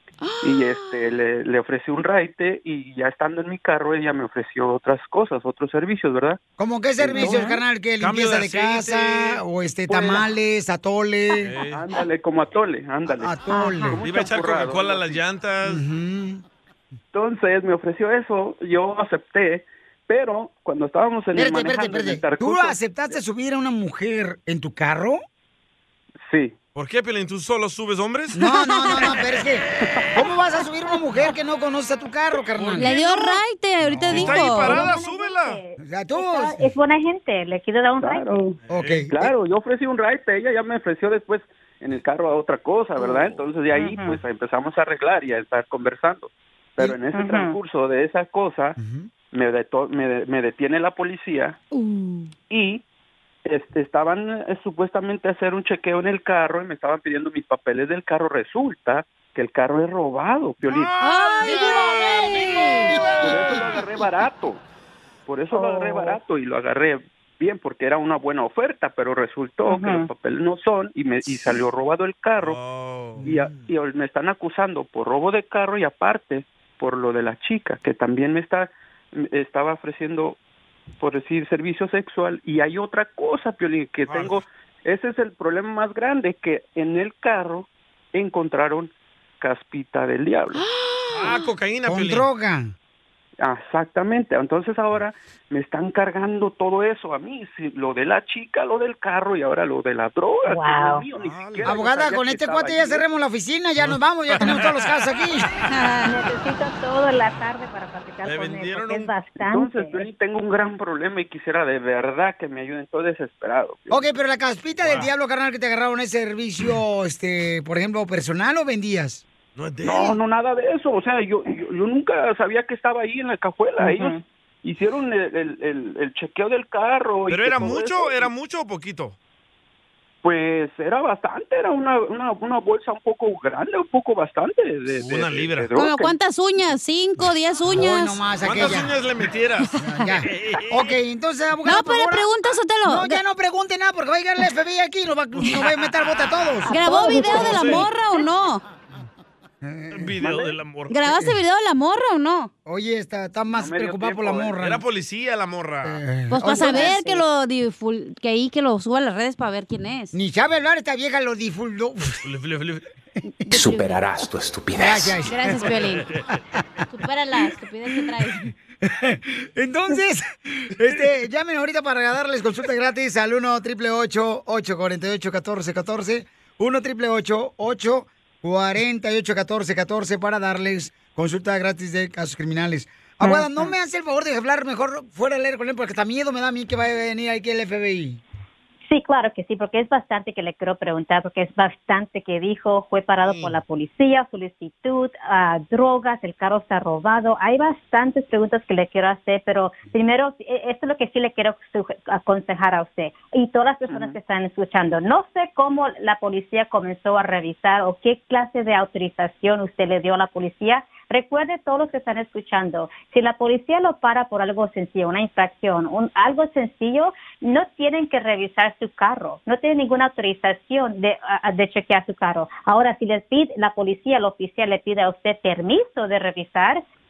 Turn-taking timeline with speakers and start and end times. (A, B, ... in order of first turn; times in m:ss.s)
0:00.2-0:01.0 A
0:00.4-0:06.4 B
0:06.6-0:11.5 C
0:07.2-0:07.5 D
0:08.0-0:09.4 E
0:09.9-0:10.2 B
0:11.4-0:11.8 E
0:11.6-0:15.2 B
0:13.2-0:14.0 C
0:14.0-0:15.8 E
0:15.6-0:16.4 C
0:17.1-0:23.2 B
0:21.3-0:25.2 C
0:26.2-0:26.5 B
0:26.7-0:28.4 E
0:28.3-0:32.9 C
0:28.5-0:29.0 A
0:32.6-0:33.4 E
0:32.8-0:34.7 A
0:34.0-0:34.3 C
0:34.0-0:35.6 E
0:34.6-0:38.3 D
0:35.8-0:36.7 C
0:38.0-0:38.6 B
0:38.7-0:39.1 E
0:38.7-0:39.3 C
0:39.1-0:48.8 B
0:43.0-0:44.2 D
0:47.0-0:47.6 D
0:48.8-0:49.1 C
0:49.3-0:51.6 B
0:51.7-0:52.3 A
0:52.5-0:52.8 B
0:53.4-1:00.9 B
1:00.7-1:02.8 E
1:01.0-1:03.0 A
1:01.4-1:03.7 C
1:03.2-1:04.6 B
1:05.2-1:12.6 B
1:05.5-1:06.2 D
1:09.6-1:10.1 D
1:12.4-1:13.2 E
1:13.2-1:20.4 B
1:21.0-1:30.6 B
1:24.0-1:24.4 E
1:30.5-1:31.4 A
1:31.1-1:32.3 E
1:31.8-1:32.7 C
1:33.4-1:43.0 B
1:40.5-1:41.0 D
1:41.2-1:41.7 E
1:41.6-1:45.5 C
1:43.8-1:44.9 E
1:45.7-1:46.1 A
1:46.0-1:50.0 D
1:48.2-1:49.1 E
1:49.4-1:54.0 B
1:53.9-1:59.2 C
1:54.8-1:55.1 E
1:59.6-2:00.2 E
1:59.8-2:08.3 B
2:03.8-2:04.2 D
2:07.3-2:09.2 E
2:10.2-2:16.1 B
2:15.0-2:15.7 E
2:15.7-2:18.2 A
2:17.7-2:18.9 C
2:18.4-2:21.0 E
2:19.8-2:22.3 C
2:21.6-2:23.2 A
2:22.8-2:27.6 C
2:25.4-2:25.7 E
2:26.7-2:28.6 A
2:26.8-2:27.3 D
2:27.2-2:27.9 E
2:29.6-2:30.1 C
2:29.9-2:31.0 E
2:30.2-2:30.5 B
2:30.9-2:32.5 A
2:32.6-2:34.8 C
2:33.5-2:34.6 B
2:34.6-2:36.0 E
2:35.8-2:37.2 C
2:36.3-2:40.1 A
2:40.1-2:42.2 C
2:42.2-2:42.8 E
2:43.5-2:44.1 A
2:44.8-2:45.7 C
2:45.2-2:46.1 A
2:46.9-2:48.5 A
2:48.8-3:08.2 C
3:08.9-3:46.8 D
3:13.2-3:13.6 E
3:23.9-3:24.1 B